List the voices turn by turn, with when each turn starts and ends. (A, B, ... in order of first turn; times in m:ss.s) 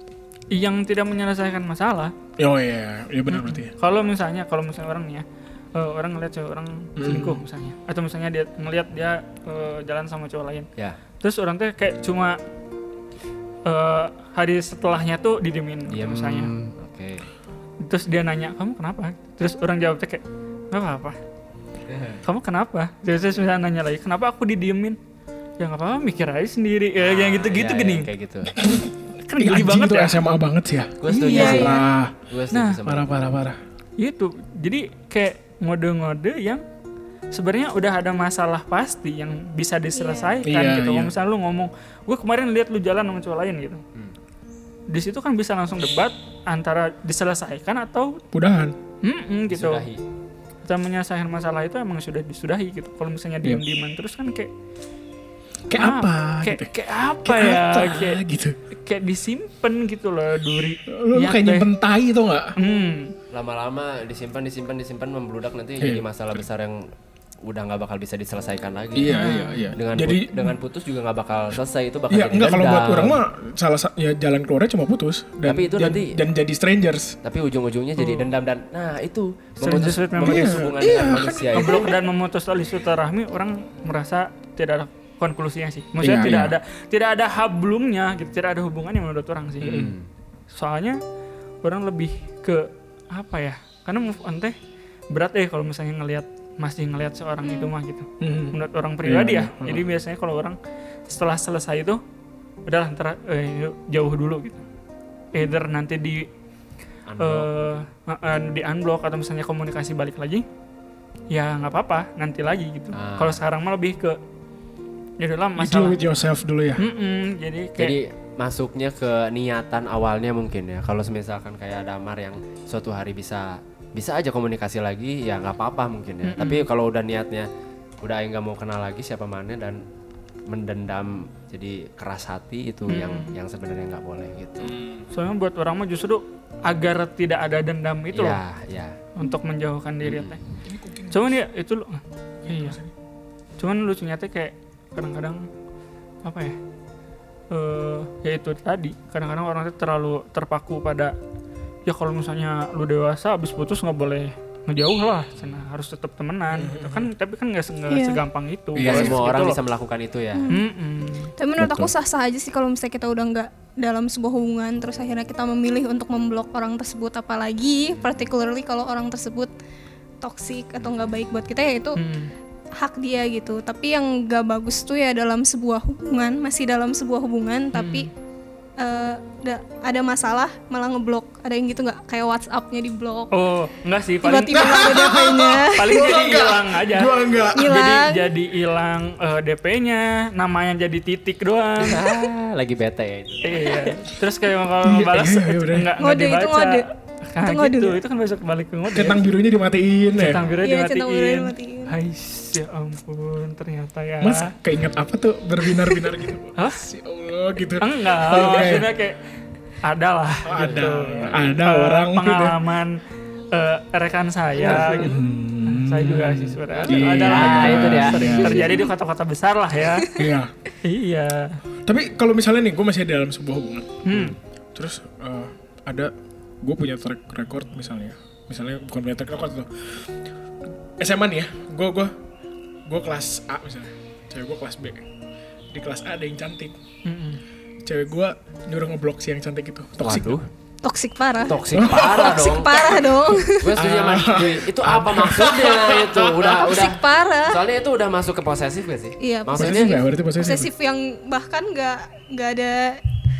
0:00.5-0:02.1 A
0:02.4-0:03.7 B
0:03.3-0:10.7 A
0:07.0-0:07.4 B
0:11.2-0:12.4 A
0:13.6-0:16.5 A
0:15.9-0:17.2 C
0:17.8-0:21.2 A
0:21.9-0:22.2 C
0:22.2-0:25.0 A
0:25.6-0:28.1 A
0:27.0-0:28.6 C
0:28.5-0:32.1 B
0:29.3-0:30.2 A
0:31.0-0:33.3 C
0:31.1-0:31.7 A
0:31.2-0:31.8 D
0:32.5-0:32.8 A
0:32.8-0:33.6 B
0:34.0-0:36.6 A
0:37.3-0:43.8 A
0:39.9-0:40.4 D
0:40.4-0:41.1 B
0:44.9-0:48.2 A
0:48.3-0:48.7 B
0:49.0-0:49.8 A
0:49.5-0:50.0 C
0:50.6-0:54.5 A
0:55.7-0:56.7 B
0:55.7-0:58.2 A
0:57.2-0:58.6 B
0:58.8-1:01.7 A
1:00.9-1:02.6 B
1:02.6-1:03.1 A
1:03.3-1:06.9 C
1:05.8-1:06.4 B
1:07.4-1:13.2 C
1:08.9-1:10.6 B
1:09.1-1:09.7 A
1:12.1-1:17.2 B
1:15.4-1:16.2 C
1:17.2-1:21.9 C
1:18.0-1:18.3 A
1:19.6-1:20.6 A
1:20.2-1:21.9 B
1:21.5-1:29.9 A
1:26.0-1:26.6 B
1:29.6-1:30.1 C
1:29.6-1:29.9 B
1:30.5-1:31.0 A
1:31.6-1:34.6 A
1:35.1-1:42.0 A
1:37.4-1:37.7 D
1:38.2-1:39.8 B
1:42.6-1:44.6 A
1:45.3-1:46.3 A
1:47.1-1:47.5 C
1:47.2-1:50.4 A
1:51.3-1:54.2 A
1:52.9-1:53.4 C
1:55.2-1:56.0 A
1:55.6-1:56.8 B
1:56.8-1:57.9 A
1:57.8-2:07.5 C
2:06.2-2:06.7 A
2:08.0-2:09.8 C
2:10.5-2:14.8 C
2:12.9-2:13.3 A
2:14.6-2:15.0 B
2:15.1-2:18.4 A
2:18.1-2:19.0 C
2:19.2-2:20.4 A
2:20.0-2:20.4 C
2:20.6-2:21.3 B
2:21.1-2:22.8 A
2:22.4-2:22.9 B
2:23.6-2:25.5 A
2:26.2-2:26.6 A
2:27.5-2:31.1 A
2:31.8-2:39.6 A
2:36.5-2:37.1 B
2:37.9-2:38.2 D
2:38.7-2:39.2 B
2:38.8-2:40.5 C
2:40.3-2:40.6 D
2:40.5-2:41.3 A
2:41.4-2:49.5 D
2:41.6-2:41.9 C
2:50.2-2:52.0 D
2:52.0-2:52.3 A
2:52.8-2:58.1 D
2:57.7-2:58.1 A
2:58.8-3:03.3 D
3:03.3-3:05.0 A
3:04.2-3:06.1 D
3:04.5-3:07.8 B
3:05.7-3:12.0 A
3:07.5-3:08.2 D
3:11.8-3:13.9 C
3:13.4-3:19.2 A
3:14.8-3:15.9 B
3:16.0-3:16.8 D
3:17.4-3:18.0 D
3:18.9-3:20.5 B
3:20.2-3:24.5 A
3:20.6-3:22.0 D
3:24.2-3:28.9 B
3:26.6-3:26.8 A
3:27.8-3:29.2 A
3:29.8-3:40.2 A
3:30.4-3:32.6 B
3:34.6-3:38.8 B
3:36.8-3:38.8 C
3:39.9-3:40.3 D
3:40.1-3:40.5 B
3:40.8-3:41.6 A
3:41.8-3:44.0 B
3:44.0-3:44.3 A
3:44.1-3:44.4 C
3:44.7-3:50.0 B
3:51.0-3:52.1 B
3:52.8-3:55.0 B
3:55.7-3:56.8 B
3:57.0-3:57.4 A
3:57.8-4:00.4 B
4:00.0-4:00.5 C
4:00.8-4:03.7 D
4:01.4-4:10.0 C
4:01.7-4:02.5 B
4:03.7-4:06.5 B
4:06.4-4:07.6 D
4:09.2-4:13.0 D
4:09.5-4:10.7 B